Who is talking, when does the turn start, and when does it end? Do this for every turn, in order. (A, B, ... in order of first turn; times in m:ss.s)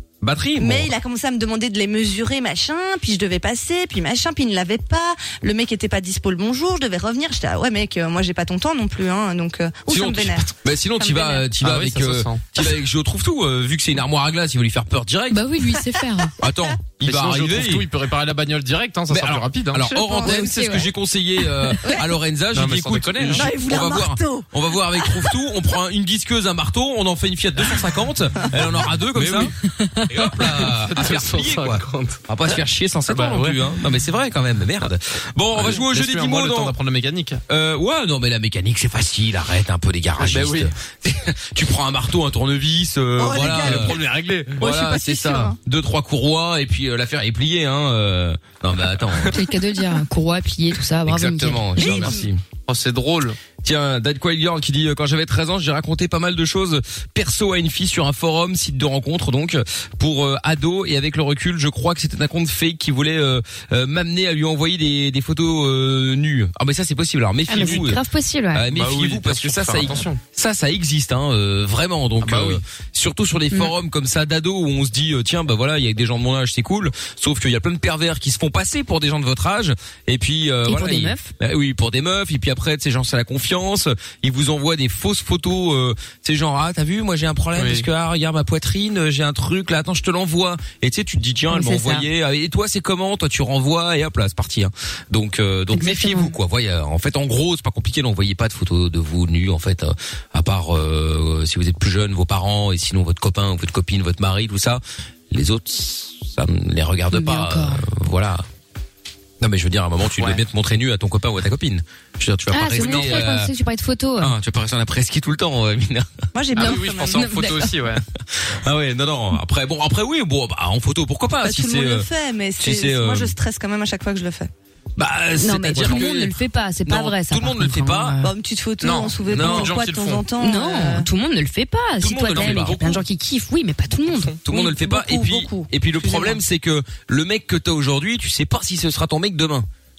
0:00.2-0:00.9 A
0:00.6-0:11.5 B
0:09.9-0:15.5 A
0:11.6-0:12.4 C
0:15.3-0:16.3 D
0:16.4-0:17.9 A
0:17.0-0:19.9 C
0:19.1-0:29.5 A
0:19.9-0:20.5 B
0:20.2-0:20.9 D
0:22.5-0:23.5 C
0:23.3-0:24.4 B
0:25.0-0:25.3 B
0:29.1-0:32.2 C
0:30.1-0:36.8 A
0:33.1-0:33.6 C
0:35.5-0:37.4 C
0:37.5-0:49.4 A
0:40.2-0:40.7 C
0:43.2-0:44.0 B
0:43.4-0:44.6 C
0:44.6-0:45.6 B
0:49.3-0:52.1 D
0:51.1-0:52.4 A
0:51.8-0:52.2 B
0:52.7-0:53.4 C
0:53.6-1:08.0 A
1:07.5-1:08.7 D
1:08.5-1:48.4 A
1:08.7-1:10.2 C
1:12.2-1:12.6 C
1:20.6-1:21.3 D
1:27.6-1:27.8 C
1:31.5-1:32.1 D
1:35.7-1:36.3 D
1:47.1-1:47.8 D
1:49.4-1:53.5 A
1:52.5-1:54.3 D
1:52.8-1:53.2 C
1:54.2-1:56.1 A
1:56.3-1:57.5 B
1:56.6-1:58.0 C
1:56.6-1:57.7 D
1:58.4-2:02.1 A
2:01.4-2:04.5 B
2:02.6-2:03.3 A
2:05.0-2:08.2 A
2:05.4-2:08.3 D
2:08.2-2:11.1 B
2:08.8-2:10.2 C
2:09.2-2:09.8 A
2:10.4-2:15.6 D
2:12.0-2:12.8 A
2:12.3-2:13.0 C
2:14.0-2:14.4 C
2:14.4-2:19.7 A
2:14.5-2:16.4 B